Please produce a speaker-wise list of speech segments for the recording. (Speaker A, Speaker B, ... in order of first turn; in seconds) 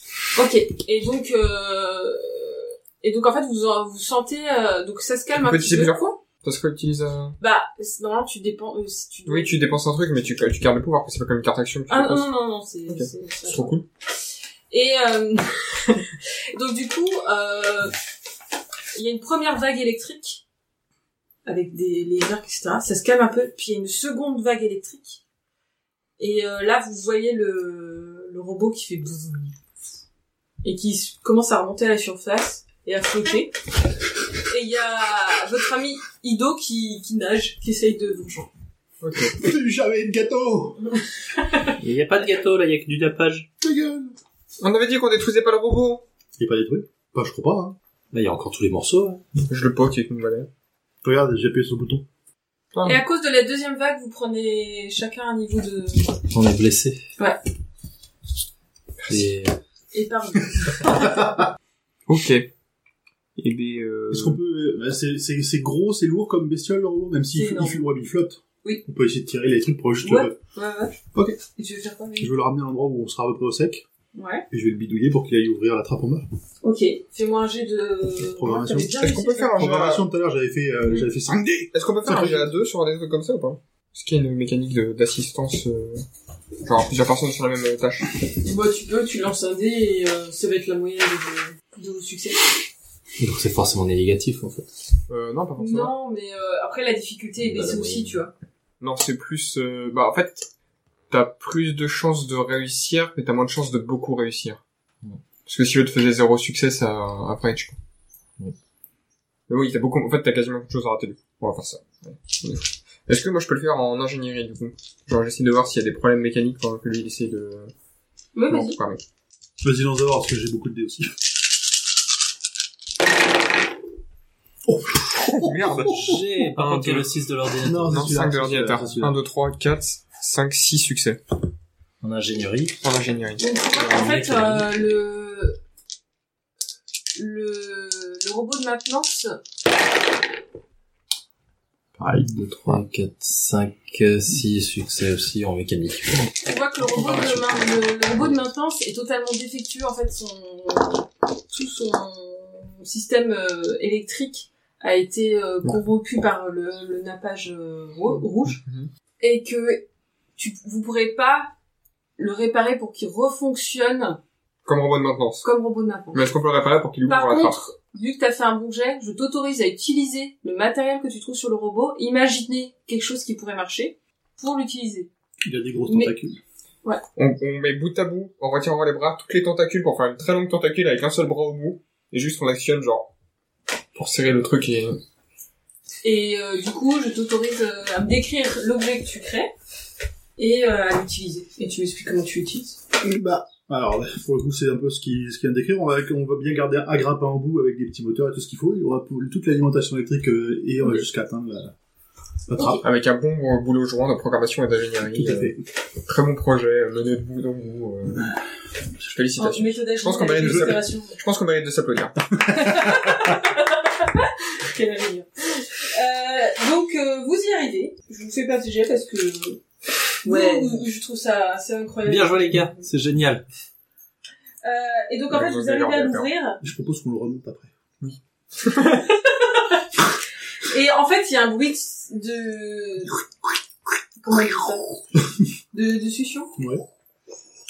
Speaker A: 0.3-6.2, 7.4-9.6, 11.9-13.8, 14.7-17.9, 18.9-20.4, 21.4-25.2, 26.2-29.5, 30.6-33.5, 34.4-38.5, 41.4-41.7, 52.8-56.2, 59.9-61.3, 67.3-67.8, 70.0-71.0, 71.5-72.3, 74.1-74.5, 76.6-79.6, 88.4-92.4, 95.6-98.3, 118.3-118.8, 133.4-135.6, 137.1-139.3, 146.4-158.6, 159.2-159.8, 160.4-161.5, 162.2-164.2, 165.4-166.2, 167.1-175.1, 175.9-176.1, 186.0-189.5, 190.4-192.8, 202.5-202.8, 209.4-211.2, 212.5-219.6, 220.2-222.9, 224.6-226.6, 229.3-229.8, 230.6-233.2, 234.2-234.9, 235.7-236.5
Speaker B: 5.4-7.4, 9.2-12.3, 12.9-13.8, 39.0-39.4, 44.6-46.0, 49.4-50.5, 52.7-53.0, 62.1-62.5, 63.4-64.4, 78.9-80.0, 81.7-86.0, 86.6-88.1, 95.1-95.9, 98.8-100.5, 101.1-104.6, 105.5-107.8, 109.5-117.7, 118.5-119.0, 125.2-127.1, 127.9-131.2, 132.8-133.4, 158.1-158.9, 164.7-165.4, 166.1-167.6, 177.2-183.1, 183.9-185.0, 202.8-208.3, 209.0-212.2, 225.3-226.3, 228.0-229.1
Speaker C: 39.2-40.8, 43.6-44.2, 46.4-47.8, 51.0-52.0, 60.8-61.4, 64.1-70.4, 71.1-71.4, 72.2-73.8, 74.5-76.2, 78.2-78.9, 79.5-82.5, 119.6-121.1, 124.7-126.2, 127.6-129.2, 175.4-176.4, 193.0-201.7, 202.5-202.8, 205.1-205.6, 210.4-210.7, 212.4-213.3, 226.6-227.7, 236.6-236.8
Speaker D: 41.8-43.5, 48.1-49.2, 56.3-57.0, 59.1-59.6, 93.2-94.7, 97.4-98.2, 125.9-128.2, 132.0-132.8, 133.8-134.7, 142.0-146.3, 220.2-220.8, 222.0-223.4